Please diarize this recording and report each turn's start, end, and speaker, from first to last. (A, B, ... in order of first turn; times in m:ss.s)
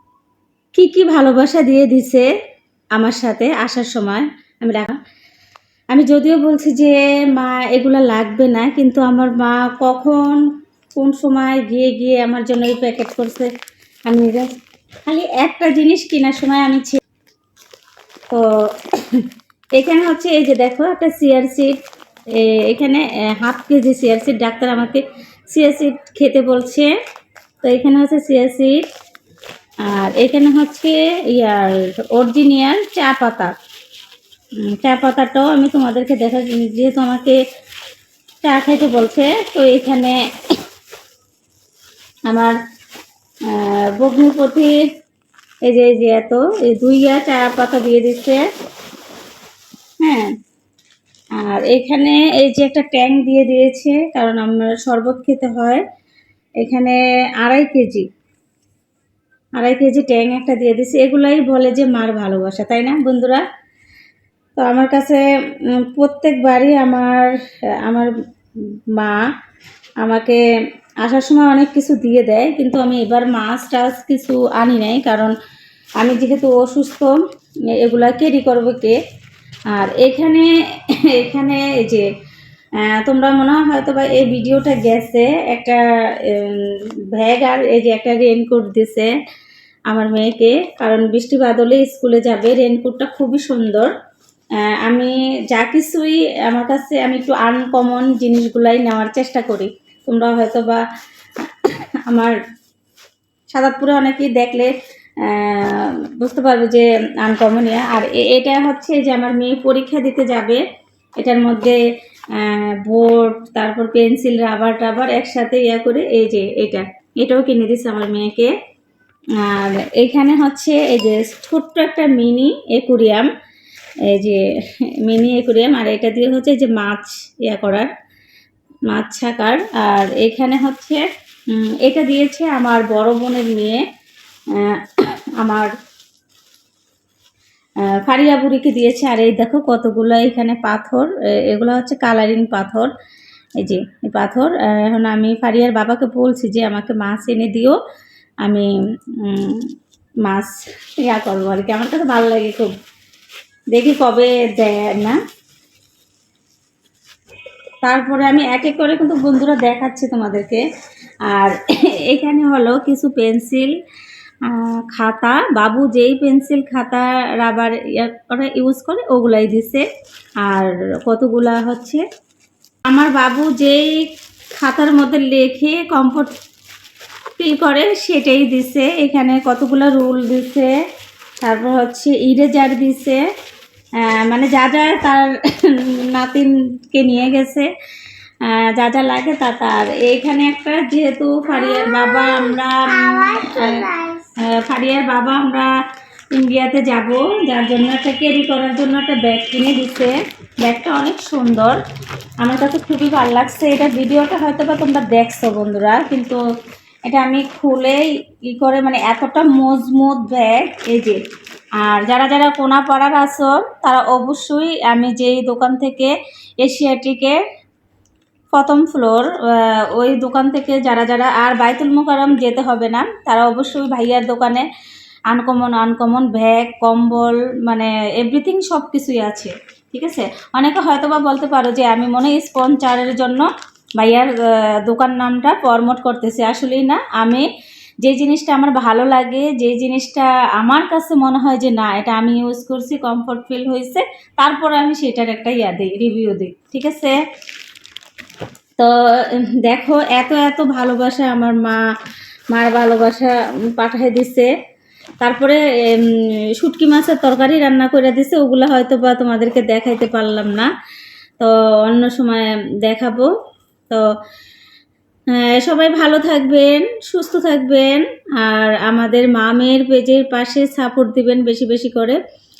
0:00.8-0:02.3 A
0:03.0-0:05.0 A
0:05.9-0:10.4 A
0:11.0-0:13.5 A
0:14.1-0:17.0 A
0:18.3-0:21.8 A
0:22.3-0:26.9 A
0:27.6-0:28.8 A
0:29.8-0:33.5 A
0:34.6-0:37.4 A
0:38.4-0:40.2 A
0:42.3-0:42.6 A
0:43.5-0:44.8 A
0:45.7-0:48.4 A
0:50.0-0:50.3 A
0:51.4-0:55.8 A
0:56.6-0:58.1 A
0:59.6-1:03.4 A
1:04.6-1:08.1 A
1:08.9-1:09.2 A
1:10.0-1:10.4 A
1:11.0-1:15.3 A
1:16.0-1:17.2 A
1:17.7-1:19.0 A
1:19.7-1:22.1 A
1:22.8-1:29.1 A
1:29.9-1:33.9 A
1:34.6-1:40.8 A
1:41.4-1:42.4 A
1:43.5-1:44.7 A
1:45.2-1:50.6 A
1:51.2-1:51.8 A
1:52.3-1:58.5 A
1:59.4-2:03.3 A
2:04.1-2:04.5 A
2:05.0-2:07.9 A
2:08.9-2:13.8 A
2:14.5-2:15.7 A
2:17.9-2:22.9 A
2:23.6-2:27.8 A
2:28.4-2:29.7 A
2:30.2-2:32.8 A
2:33.7-2:35.2 A
2:37.8-2:40.6 A
2:41.3-2:43.7 A
2:44.4-2:49.8 A
2:50.4-2:52.0 A
2:52.9-2:54.1 A
2:54.6-2:56.3 A
2:57.4-3:00.7 A
3:01.4-3:03.2 A
3:04.0-3:07.7 A
3:08.4-3:13.9 A
3:14.5-3:15.7 A
3:16.3-3:21.8 A
3:22.4-3:26.4 A
3:27.1-3:31.2 A
3:31.8-3:37.4 A
3:38.5-3:44.7 A
3:45.3-3:57.5 A
3:58.0-4:07.2 A
4:08.8-4:11.8 A
4:12.5-4:14.5 A
4:15.2-4:20.7 A
4:21.4-4:23.3 A
4:25.4-4:32.2 A